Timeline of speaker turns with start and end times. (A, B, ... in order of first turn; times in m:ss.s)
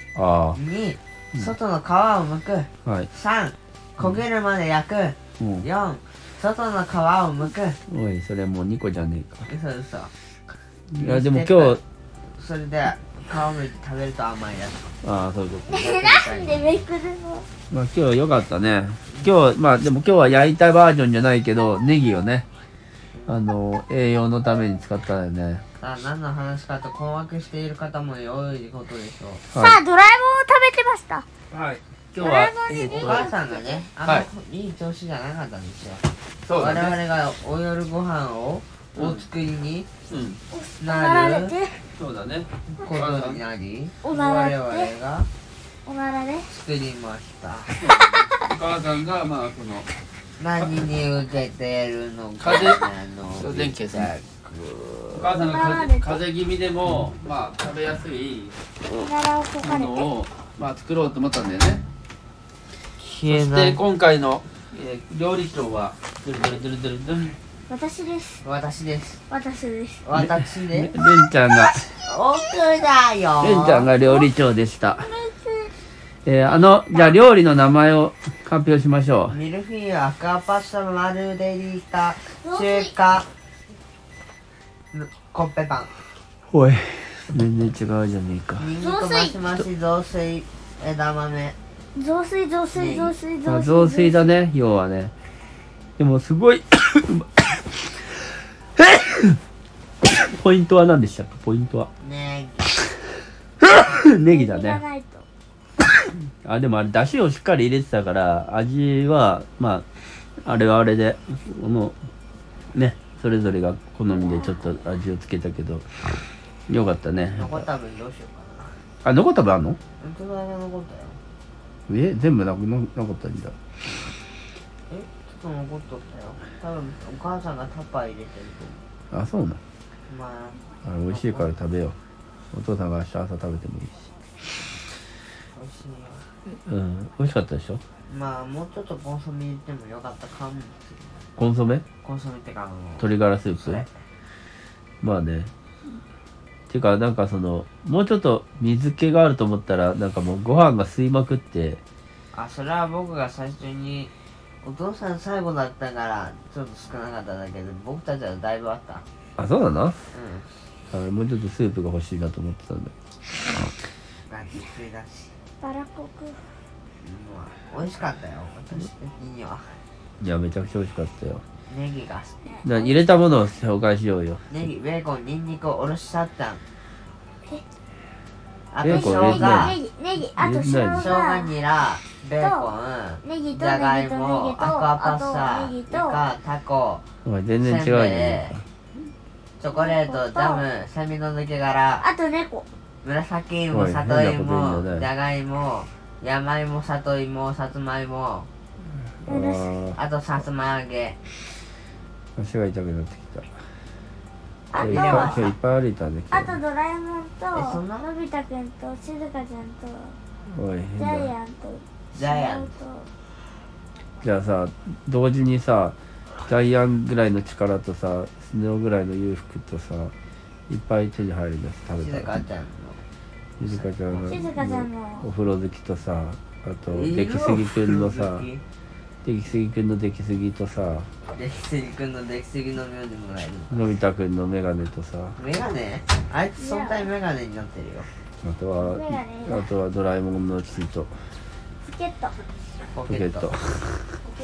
0:00.2-0:00.6 A
0:00.6-0:07.8 B
0:05.4-0:05.7 A
0:07.9-0:09.5 A
0:09.5-0:10.1 B
0:10.9-0:11.8 A
0:11.0-0:11.8 B
0:12.4-0:15.0 B
0:15.0-0:15.9 A
0:15.7-0:17.5 C
0:15.7-0:16.8 B
0:17.7-0:22.5 A
0:23.3-0:25.6 A
0:25.8-0:29.4 B
0:29.5-0:29.8 A
0:29.5-0:31.2 C
0:31.5-0:33.3 A
0:32.2-0:33.8 C
0:32.9-0:36.0 B
0:36.4-0:37.0 A
0:36.6-0:39.9 B
0:39.0-0:39.2 A
0:40.1-0:40.4 A
0:40.5-0:41.9 C
0:40.8-0:41.6 B
0:42.0-0:43.4 A
0:42.7-0:45.3 B
0:44.0-0:44.9 C
0:45.9-0:46.5 C
0:46.5-0:47.8 B
0:47.8-0:49.9 A
0:48.0-0:48.3 C
0:50.4-0:55.4 B
0:52.4-0:52.9 A
0:53.4-0:54.1 A
0:55.1-0:58.6 A
0:55.3-0:56.2 C
0:58.9-1:00.1 C
0:59.6-1:01.8 A
1:03.0-1:03.8 B
1:03.3-1:07.4 A
1:07.7-1:08.4 C
1:08.4-1:09.2 B
1:09.3-1:10.0 C
1:10.0-1:10.9 B
1:10.2-1:11.8 A
1:12.0-1:13.9 B
1:13.4-1:15.1 A
1:14.0-1:14.3 C
1:14.9-1:15.7 C
1:16.2-1:19.4 A
1:19.3-1:23.3 B
1:22.4-1:22.9 C
1:24.9-1:26.0 B
1:26.5-1:28.7 A
1:28.6-1:31.6 B
1:28.8-1:29.4 C
1:32.0-1:34.3 C
1:32.7-1:33.1 B
1:33.5-1:35.1 A
1:36.0-1:39.4 A
1:40.0-1:41.9 A
1:42.0-1:42.7 B
1:43.6-1:44.8 A
1:44.3-1:45.3 C
1:46.4-1:49.9 A
1:50.4-1:52.0 A
1:52.7-1:55.9 A
1:56.7-1:57.7 A
1:57.3-1:58.8 B
1:59.0-1:59.8 A
2:00.0-2:01.2 B
2:01.9-2:03.6 A
2:04.9-2:08.8 B
2:09.1-2:09.6 A
2:10.1-2:11.5 B
2:10.8-2:12.0 A
2:12.5-2:14.1 A
2:15.5-2:16.3 B
2:16.7-2:17.8 A
2:18.1-2:21.3 B
2:21.4-2:21.8 A
2:22.0-2:23.9 B
2:23.0-2:23.9 A
2:25.0-2:25.5 A
2:26.7-2:31.8 A
2:32.3-2:34.1 B
2:34.6-2:39.0 B
2:39.4-2:40.0 A
2:40.1-2:40.5 B
2:40.9-2:42.9 A
2:44.3-2:45.4 B
2:45.6-2:46.4 C
2:47.0-2:49.8 B
2:50.2-2:51.4 A
2:51.7-2:52.6 B
2:52.4-2:53.0 C
2:52.6-2:54.5 A
2:54.5-2:56.6 B
2:58.7-2:59.8 B
2:58.8-2:59.8 A
2:58.8-3:01.5 C
3:00.4-3:01.2 A
3:01.0-3:07.0 B
3:02.4-3:02.7 C
3:03.2-3:06.3 C
3:07.2-3:08.6 A
3:07.6-3:08.6 B
3:09.6-3:12.1 B
3:09.7-3:10.6 C
3:12.0-3:12.7 C
3:13.0-3:18.5 B
3:13.7-3:15.1 A
3:19.2-3:20.0 A
3:19.3-3:19.7 C
3:20.0-3:21.2 B
3:22.4-3:23.5 A
3:24.7-3:25.5 C
3:24.7-3:25.5 B
3:24.8-3:26.6 A
3:26.3-3:30.2 C
3:27.5-3:28.1 B
3:30.5-3:31.3 A
3:31.0-3:33.1 C
3:32.1-3:32.8 B
3:34.2-3:40.1 A
3:40.7-3:42.4 A
3:41.9-3:43.0 B
3:43.6-3:48.5 A
3:43.6-3:44.4 B
3:44.2-3:45.3 C
3:46.9-3:48.6 B
3:49.2-3:51.1 A
3:51.3-3:53.8 B
3:53.7-3:55.4 A
3:55.4-3:58.1 B
3:56.6-3:57.1 C
3:58.4-4:01.3 A
3:58.8-3:59.7 C
4:01.8-4:02.4 C
4:02.9-4:03.5 B
4:03.1-4:04.2 A